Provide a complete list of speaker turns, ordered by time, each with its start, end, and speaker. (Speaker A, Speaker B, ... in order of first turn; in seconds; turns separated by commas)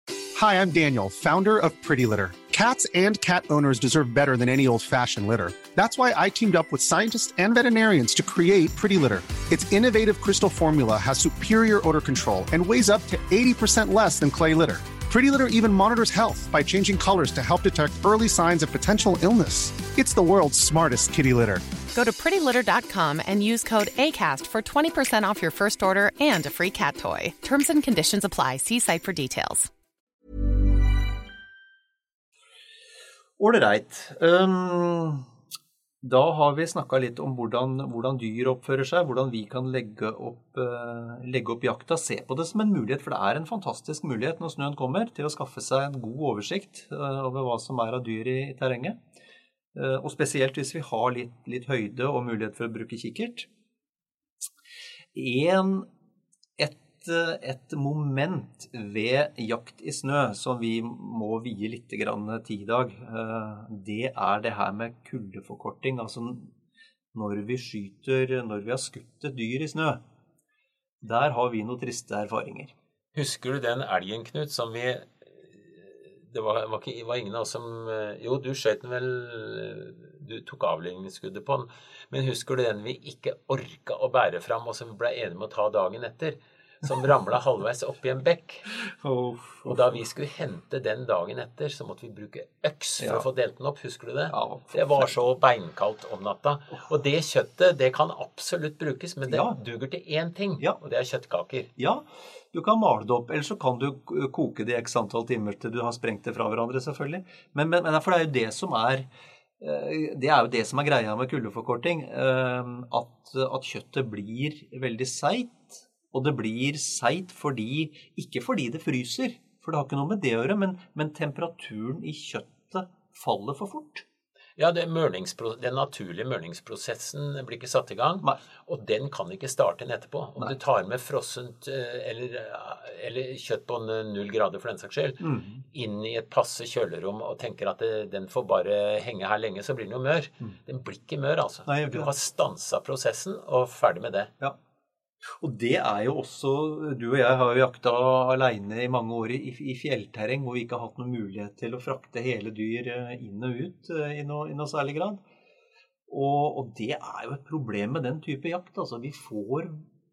Speaker A: 0.3-21.7, Speaker B: 21.9-29.7, Speaker C: 33.4-35.3, Speaker C: 36.0-49.0, Speaker C: 49.7-53.5, Speaker C: 55.1-55.9, Speaker C: 56.6-66.5, Speaker C: 67.1-70.0, Speaker C: 71.0-72.7, Speaker D: 73.1-88.7, Speaker C: 88.8-90.0, Speaker D: 89.6-101.7, Speaker C: 93.0-93.2, Speaker C: 94.3-95.1, Speaker C: 99.3-99.5, Speaker C: 101.8-109.1, Speaker C: 109.6-124.0, Speaker D: 124.6-144.3, Speaker C: 135.2-135.6, Speaker C: 141.7-142.1, Speaker C: 145.4-155.2, Speaker C: 156.1-159.8